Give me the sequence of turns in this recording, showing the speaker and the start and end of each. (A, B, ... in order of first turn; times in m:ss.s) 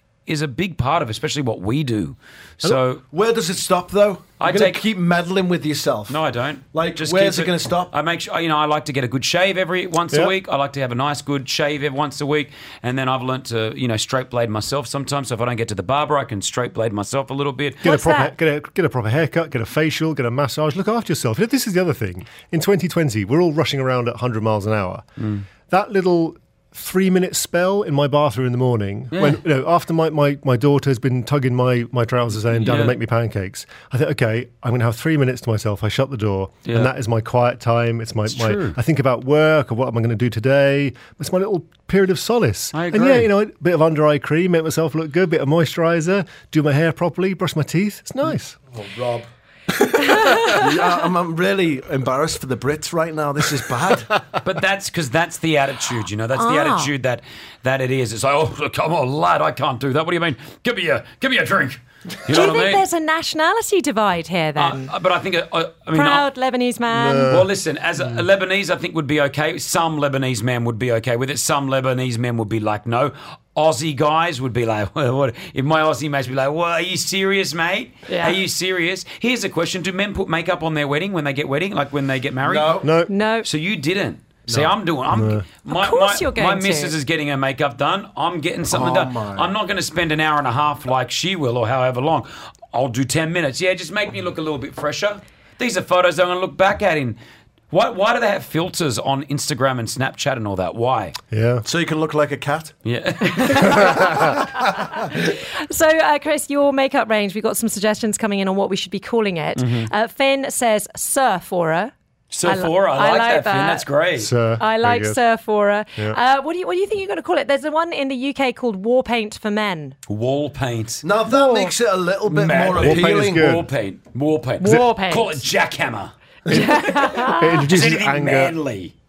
0:00.3-0:03.0 A
0:03.1-0:06.2 B
0:04.4-0:04.8 A
0:06.1-0:17.8 A
0:06.7-0:07.9 B
0:17.8-0:25.0 C
0:17.8-0:18.3 D
0:25.7-0:48.6 C
0:29.1-0:29.4 A
0:32.5-0:33.0 A
0:38.3-0:38.8 A
0:42.7-0:43.3 A
0:48.7-0:54.2 B
0:54.4-1:02.8 A
0:56.4-0:56.9 D
1:02.3-1:04.9 D
1:04.6-1:06.3 A
1:05.9-1:07.3 D
1:06.9-1:08.2 C
1:07.3-1:22.8 A
1:18.1-1:18.4 D
1:22.4-1:22.9 B
1:22.8-1:23.1 C
1:23.1-1:23.5 D
1:23.4-1:37.2 A
1:24.5-1:24.7 B
1:25.1-1:25.4 C
1:25.7-1:26.9 D
1:28.7-1:29.5 B
1:37.7-1:41.2 A
1:41.3-1:41.6 C
1:41.6-1:42.7 B
1:42.8-1:43.9 A
1:43.6-1:51.9 D
1:49.6-1:49.9 A
1:52.3-1:54.3 A
1:52.4-1:53.9 D
1:54.2-1:55.2 C
1:54.6-2:00.0 D
2:00.1-2:01.0 A
2:01.0-2:03.5 B
2:01.3-2:01.7 D
2:02.3-2:06.1 A
2:02.8-2:03.7 C
2:04.6-2:05.4 D
2:06.5-2:07.5 D
2:06.5-2:08.6 C
2:06.6-2:09.0 A